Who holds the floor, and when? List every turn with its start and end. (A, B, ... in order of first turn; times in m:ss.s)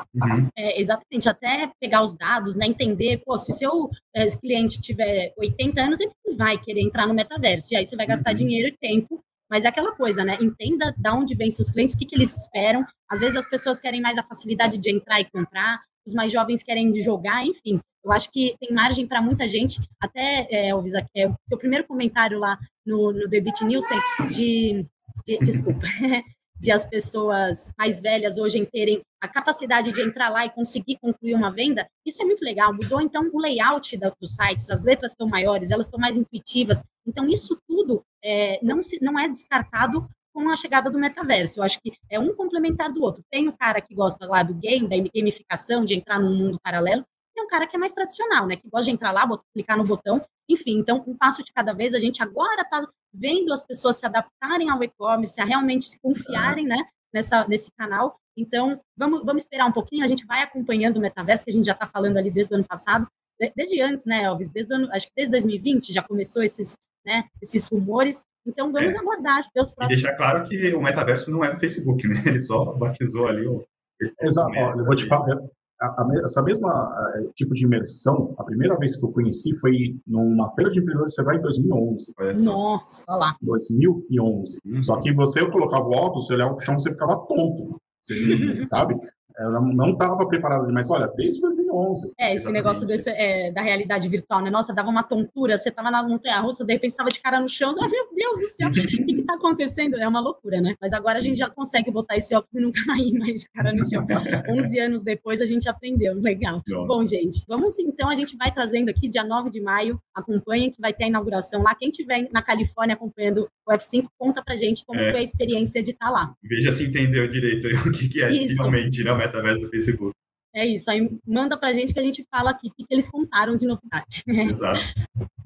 0:00.1-0:00.5 A
0:00.6-1:10.0 B
0:08.1-0:08.5 A
0:25.4-0:25.7 A
0:56.2-0:56.6 A
1:09.8-1:15.2 A
1:14.2-1:22.1 C
1:22.2-1:22.6 A
1:22.3-1:23.4 B
1:23.4-1:32.1 C
1:24.6-1:25.1 A
1:28.2-1:28.7 B
1:32.2-1:56.3 B
1:32.3-1:33.1 A
1:38.6-1:39.1 A
1:41.2-1:41.4 A
1:43.6-1:44.7 A
1:46.7-1:47.0 A
1:54.9-1:55.2 A
1:56.4-2:00.1 A
1:58.3-1:58.8 B
2:00.5-2:04.6 B
2:04.4-2:04.9 A